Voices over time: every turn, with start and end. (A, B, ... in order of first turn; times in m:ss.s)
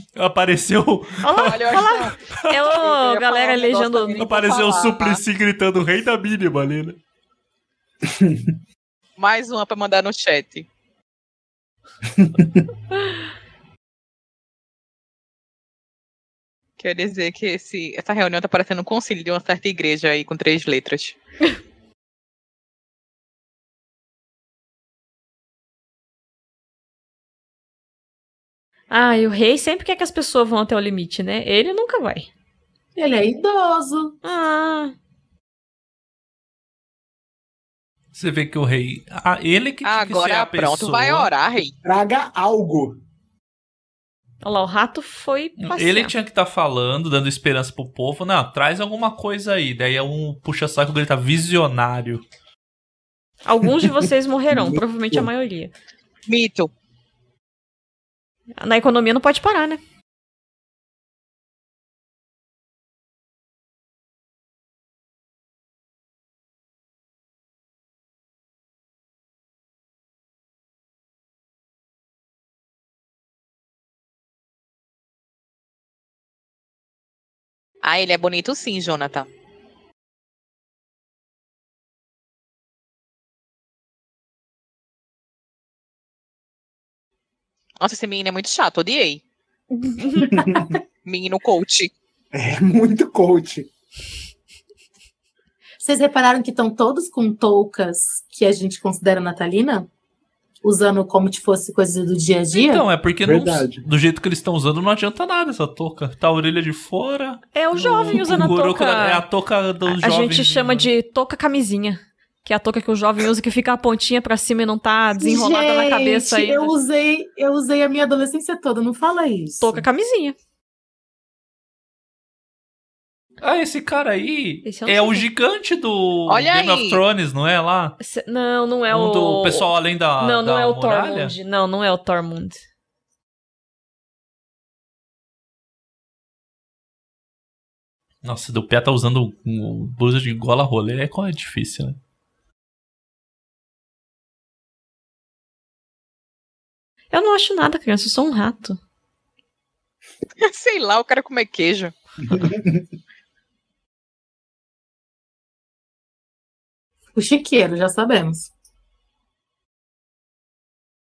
0:00.2-0:02.7 A
0:01.2-0:04.3 B
0:01.4-0:02.2 C
0:02.7-0:05.2 C
0:04.2-0:07.0 A
0:08.0-0:08.5 D
0:09.2-0:10.7 C
0:12.1-0:12.6 D
0:16.8-0:21.2 C
0:28.9-0:32.3 B
0:33.0-0:34.2 E
0:34.2-0:34.9 B
0:38.1-0:41.3 A
0:39.8-0:41.7 C
0:41.8-0:43.0 D
0:44.4-0:46.1 B
0:45.6-0:52.2 A
0:53.4-0:55.7 B
0:54.5-0:55.3 D
0:56.3-0:56.7 C
0:58.6-0:59.8 B
1:17.8-1:19.3 C
1:27.8-1:29.2 C
1:29.7-1:30.4 B
1:30.3-1:30.8 D
1:31.0-1:31.9 C
1:32.3-1:33.7 D
1:35.8-1:39.9 E
1:40.6-1:42.8 E
1:42.5-1:50.9 A
1:43.2-1:43.8 D
1:47.5-1:49.2 B
1:49.8-1:56.7 B
1:55.2-1:59.8 E
1:59.6-2:00.4 B
2:03.4-2:08.0 A
2:04.6-2:05.3 B
2:06.3-2:07.0 C
2:08.0-2:12.6 B
2:08.9-2:11.3 A
2:18.2-2:22.0 A
2:27.1-2:28.8 B
2:30.4-2:31.9 C
2:32.2-2:32.8 D
2:37.1-2:38.5 E